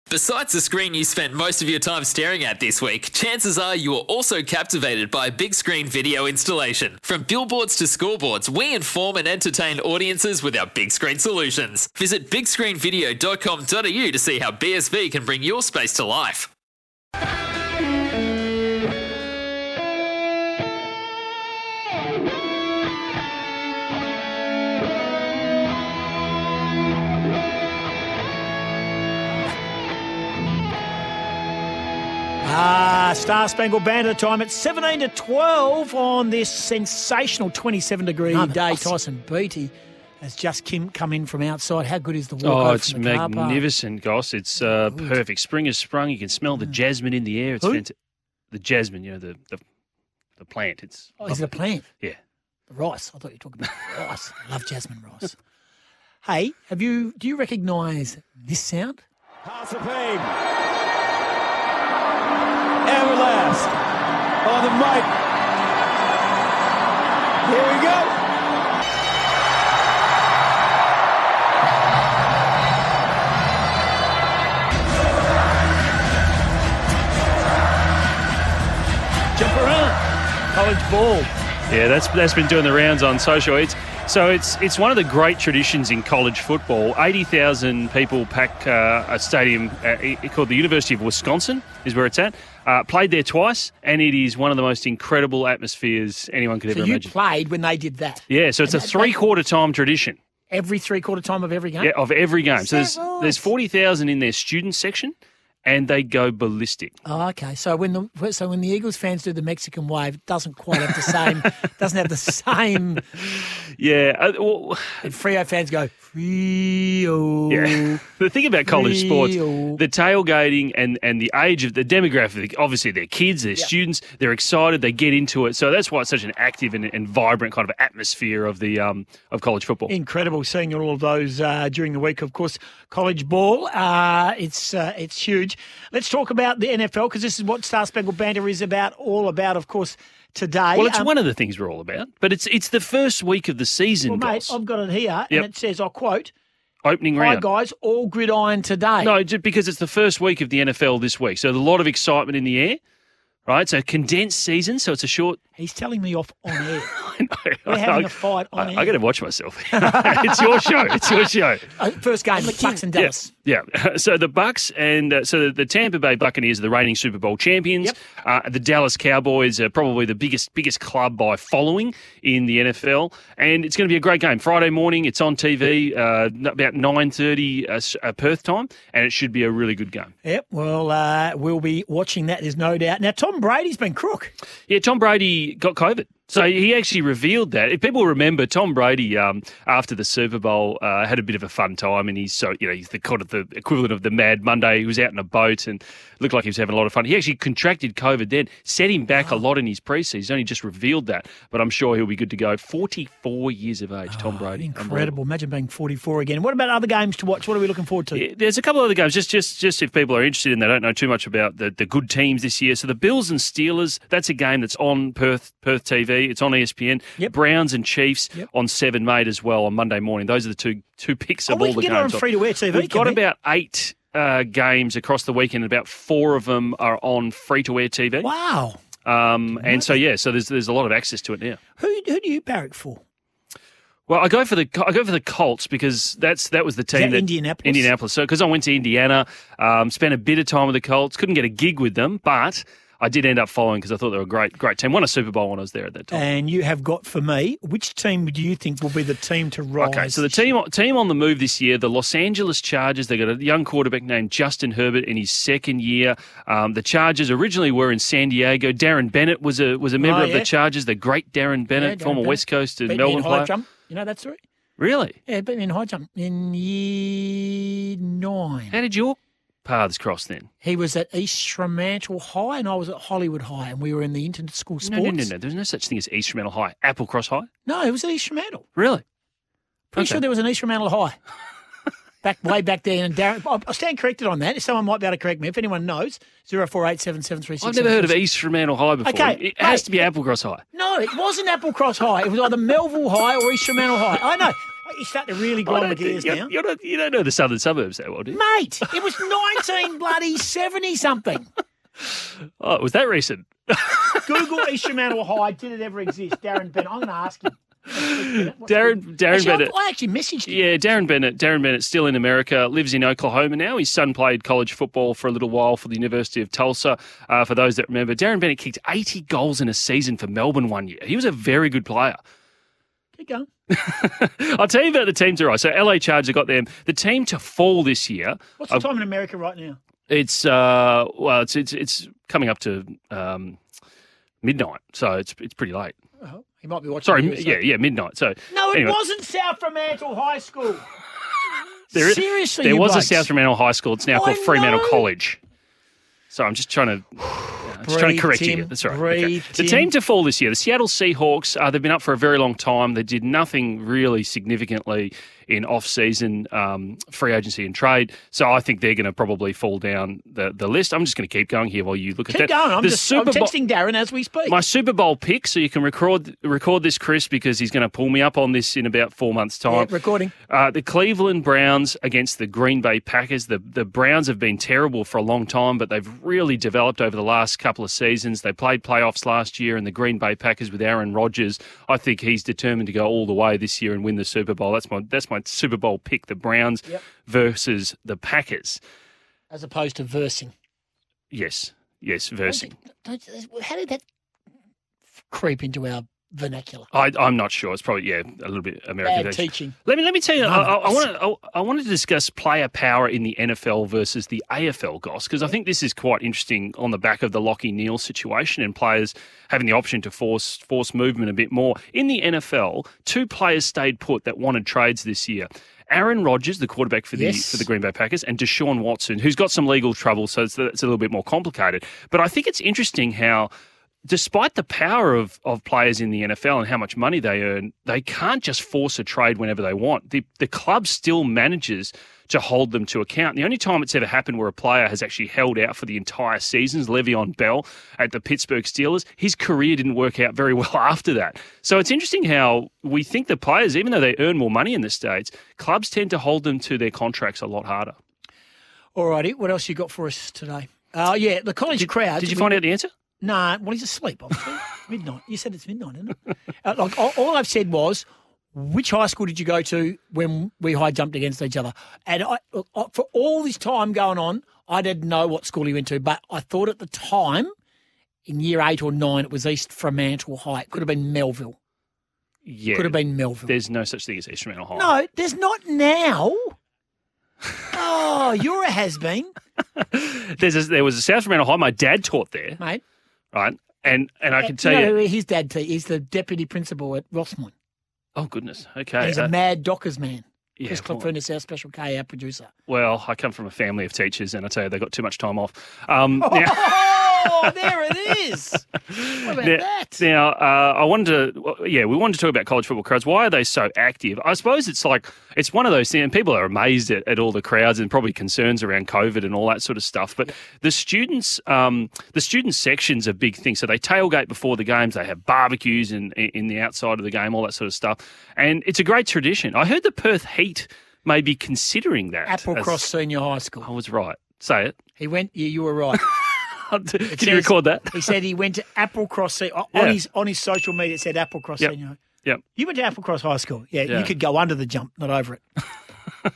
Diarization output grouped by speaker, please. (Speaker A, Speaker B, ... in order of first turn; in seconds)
Speaker A: 0.1-16.5
Speaker B: 32.4-43.6, 44.6-45.2, 51.2-51.9, 52.7-55.4, 56.2-59.0, 79.3-80.0, 80.5-81.3, 96.7-99.2, 100.5-101.9, 102.6-103.5, 107.1-113.0, 115.0-118.0, 118.7-119.8, 129.9-141.1, 144.0-146.3, 147.2-149.2, 155.6-156.9, 157.7-159.0, 159.8-163.3, 180.2-184.3, 204.1-208.2, 221.5-223.2, 228.2-228.8, 229.5-230.0, 231.8-233.0, 236.9-237.9, 246.1-250.5, 260.0-260.5, 261.7-264.4, 265.3-268.8, 270.6-275.3, 277.6-278.7, 279.9-281.2, 282.2-288.2, 289.0-290.0, 290.7-296.5, 298.3-301.5, 304.2-310.8, 323.2-323.5, 328.6-329.8, 336.2-337.6, 338.5-340.9, 341.9-343.3, 344.1-345.1, 347.8-349.9, 362.3-364.6, 369.7-370.3, 389.5-390.5, 392.5-394.0, 395.3-396.9, 399.0-399.8, 400.4-401.1, 417.1-417.7, 448.9-452.6, 453.2-467.5, 468.3-471.6, 472.7-473.6, 474.8-476.5, 477.7-479.3, 484.4-487.5, 489.0-492.5, 496.2-500.1, 522.3-523.7, 525.0-526.0, 527.1-532.0, 532.5-535.4
Speaker C: 38.3-38.9, 42.4-47.9, 48.5-49.6, 50.4-51.5, 81.7-97.1, 98.3-100.2, 101.8-106.9, 110.8-111.3, 113.2-115.1, 117.5-129.9, 140.7-144.6, 146.8-147.4, 149.0-152.8, 153.5-155.4, 156.6-161.7, 162.3-180.1, 184.7-205.2, 208.2-228.3, 229.1-231.6, 234.1-246.2, 249.8-263.5, 264.8-265.2, 268.7-270.5, 274.8-277.5, 278.8-279.0, 280.0-280.2, 287.6-290.6, 295.6-298.4, 302.6-304.6, 307.9-309.7, 310.5-322.2, 323.7-328.8, 330.1-333.6, 334.4-335.9, 337.1-339.0, 341.9-345.4, 346.3-363.5, 364.5-369.9, 370.5-388.8, 391.3-392.7, 396.9-423.5, 424.1-448.0, 451.8-452.9, 472.4-474.9, 479.8-482.6, 483.3-485.0, 488.2-489.3, 490.6-491.1, 492.7-498.1, 498.9-522.9, 523.6-524.8, 525.9-528.1, 529.7-530.0
Speaker D: 59.5-60.3, 62.9-63.7, 64.5-65.1, 67.5-68.1